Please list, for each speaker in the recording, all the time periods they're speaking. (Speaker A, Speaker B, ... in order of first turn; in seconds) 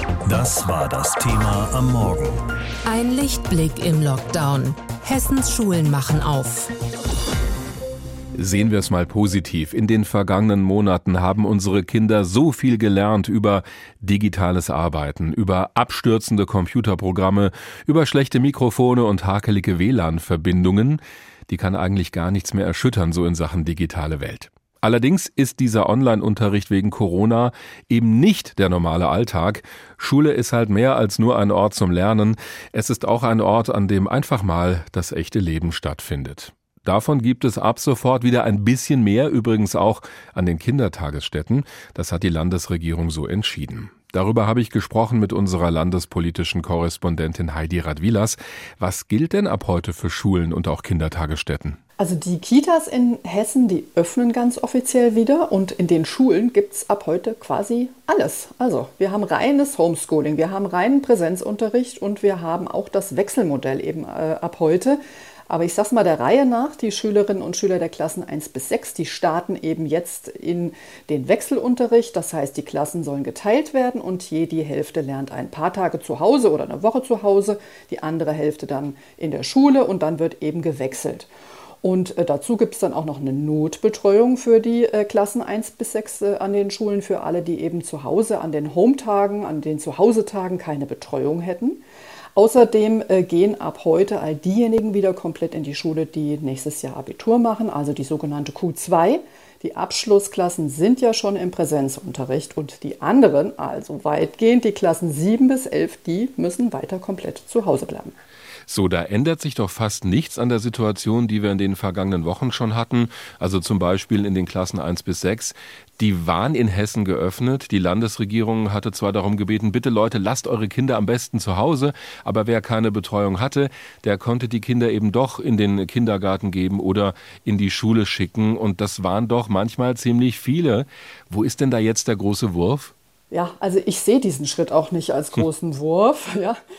Speaker A: 0.2-2.4
Speaker B: 2.9-6.7
Speaker C: 8.3-51.8, 108.7-132.9
Speaker D: 52.0-81.3, 81.8-91.8, 92.3-108.2, 133.3-136.6